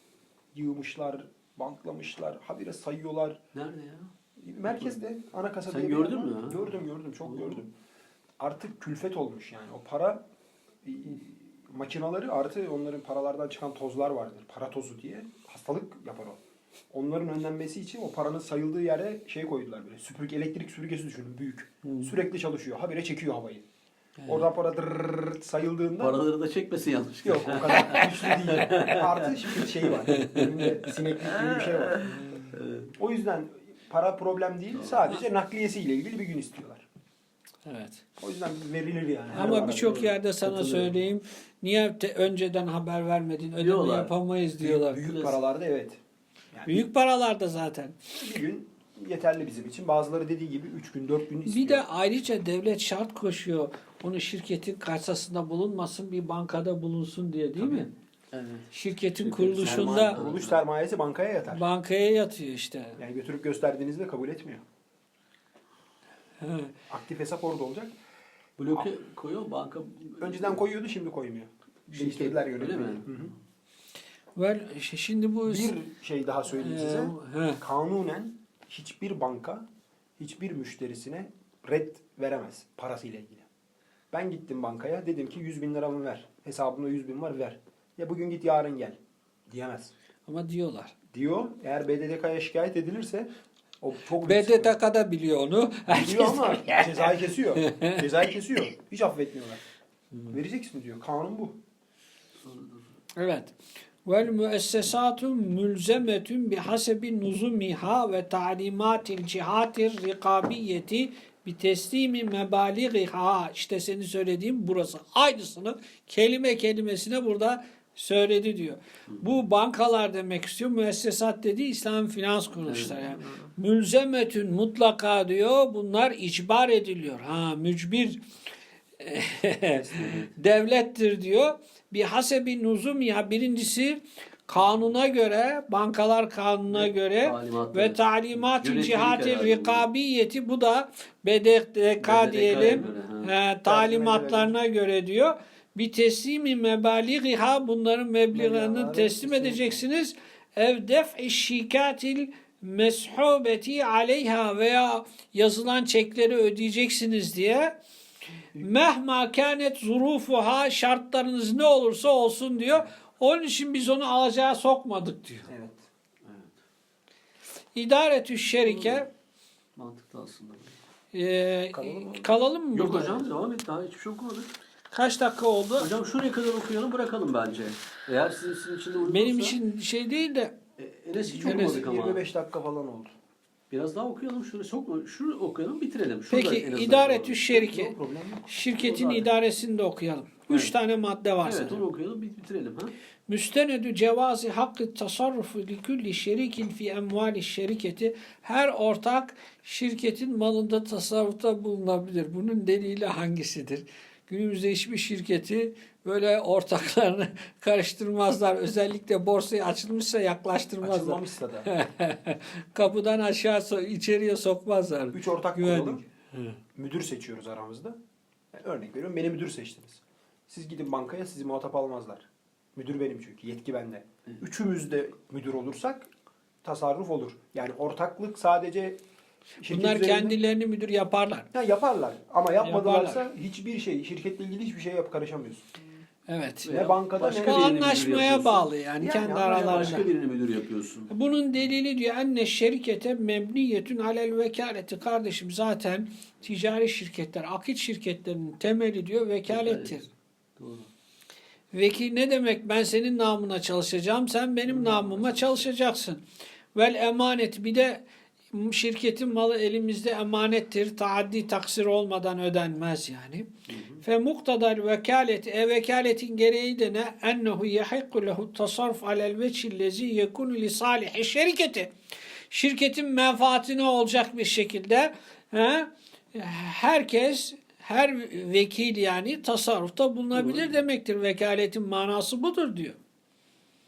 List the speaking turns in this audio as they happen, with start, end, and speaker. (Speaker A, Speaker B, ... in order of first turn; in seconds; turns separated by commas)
Speaker A: 0.5-3.4, Speaker B: 3.5-4.1, Speaker A: 4.4-7.7, Speaker B: 5.7-6.7, Speaker B: 7.2-7.6, Speaker A: 8.4-10.2, Speaker A: 10.8-16.4, Speaker A: 16.9-23.6, Speaker B: 21.8-22.1, Speaker A: 24.2-26.2, Speaker B: 26.0-32.9, Speaker A: 27.2-32.1, Speaker C: 32.2-32.5, Speaker A: 33.0-36.9, Speaker B: 34.7-35.1, Speaker C: 37.6-38.0, Speaker A: 38.2-40.1, Speaker B: 39.3-41.0, Speaker C: 39.3-45.0, Speaker B: 43.6-44.1, Speaker A: 44.6-46.0, Speaker B: 45.0-45.4, Speaker A: 46.5-46.8, Speaker C: 46.6-47.9, Speaker A: 48.1-51.9, Speaker C: 51.5-57.9, Speaker B: 57.6-60.6, Speaker C: 58.7-60.2, Speaker A: 59.6-61.6, Speaker C: 61.5-63.0, Speaker A: 63.0-64.6, Speaker C: 66.4-66.7, Speaker A: 66.9-67.9, Speaker B: 68.6-70.6, Speaker A: 70.2-73.3, Speaker B: 71.9-73.1, Speaker C: 74.3-75.7, Speaker A: 75.4-79.7, Speaker C: 76.5-77.6, Speaker A: 80.2-83.5, Speaker A: 84.1-89.9, Speaker C: 90.3-90.9, Speaker A: 91.1-93.3, Speaker A: 93.8-94.8, Speaker C: 94.2-96.9, Speaker A: 95.9-99.7, Speaker C: 97.6-98.0, Speaker A: 100.3-101.6, Speaker B: 102.4-102.8, Speaker C: 103.2-103.5, Speaker C: 104.0-128.2, Speaker B: 122.7-123.1, Speaker C: 129.0-157.8, Speaker A: 129.7-130.2, Speaker B: 130.0-130.2, Speaker B: 136.7-139.9, Speaker B: 142.0-143.3, Speaker A: 143.7-144.5, Speaker A: 148.3-149.8, Speaker C: 158.6-165.5, Speaker A: 165.5-165.8, Speaker B: 166.2-166.6, Speaker C: 167.7-169.1, Speaker B: 168.6-169.0, Speaker B: 169.8-170.8, Speaker C: 171.1-173.2, Speaker A: 171.7-172.3, Speaker B: 172.7-174.5, Speaker C: 174.9-175.9, Speaker B: 175.8-179.6, Speaker C: 179.1-180.6, Speaker B: 180.8-182.2, Speaker A: 181.3-183.1, Speaker C: 181.4-181.8, Speaker B: 183.7-189.3, Speaker C: 186.3-187.9, Speaker C: 188.5-191.8, Speaker B: 191.4-192.9, Speaker C: 193.3-216.6, Speaker A: 210.8-211.7, Speaker A: 215.1-216.0, Speaker A: 216.7-218.0, Speaker A: 218.5-226.1, Speaker A: 226.6-229.0, Speaker A: 229.6-230.4, Speaker C: 229.7-231.5, Speaker A: 231.5-235.7, Speaker C: 232.6-233.2, Speaker C: 236.3-236.7, Speaker B: 236.6-238.7, Speaker A: 236.7-238.3, Speaker C: 237.4-240.1, Speaker A: 239.0-240.1, Speaker B: 239.3-241.1, Speaker C: 241.1-250.1, Speaker B: 249.5-250.9, Speaker C: 251.7-256.2, Speaker B: 254.7-255.7, Speaker C: 256.8-263.5, Speaker B: 263.7-264.0, Speaker C: 264.0-271.9, Speaker C: 272.5-283.0, Speaker B: 280.3-280.8